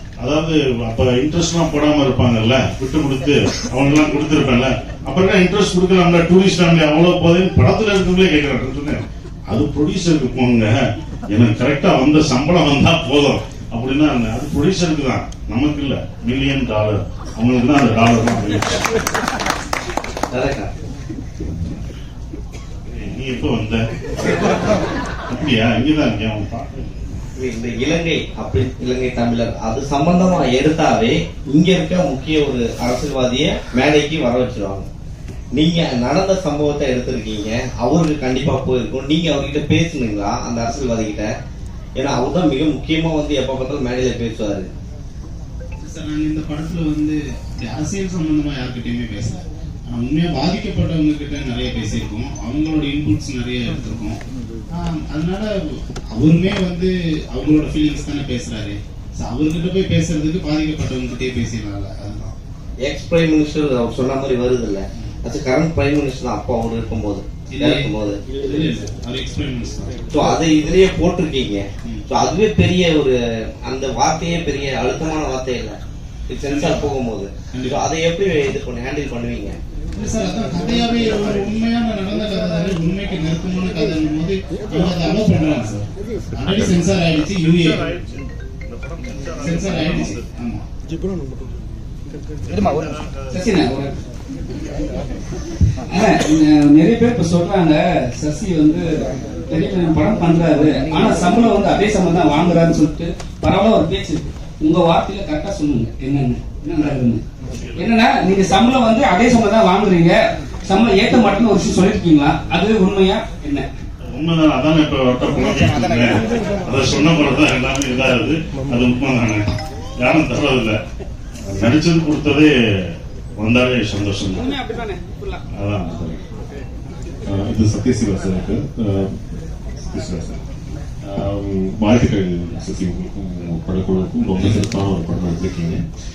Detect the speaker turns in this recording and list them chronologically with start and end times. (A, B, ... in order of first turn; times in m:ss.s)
0:00.2-0:10.8 A
0:11.3-0:18.9 A
0:20.3-0:20.7 B
0:22.9-0:24.8 A
0:25.3-0:26.7 A
0:27.4-0:34.9 B
0:35.5-0:41.3 B
0:42.0-0:44.7 B
0:45.8-0:54.2 C
0:54.7-0:55.5 C
0:56.1-1:02.4 C
1:02.8-1:08.2 B
1:07.5-1:07.9 C
1:08.4-1:10.0 C
1:10.1-1:15.8 B
1:16.3-1:19.6 B
1:16.5-1:16.9 C
1:17.5-1:17.8 C
1:19.9-1:27.9 C
1:28.7-1:29.7 A
1:29.4-1:30.6 C
1:33.3-1:33.9 D
1:35.9-1:38.9 D
1:39.5-1:47.2 D
1:47.5-1:47.8 A
1:47.8-1:53.7 D
1:54.1-1:59.5 A
2:00.0-2:00.8 A
2:01.4-2:04.5 A
2:04.3-2:05.4 D
2:05.6-2:06.2 A
2:07.2-2:09.2 E
2:09.9-2:10.4 E
2:11.1-2:15.8 E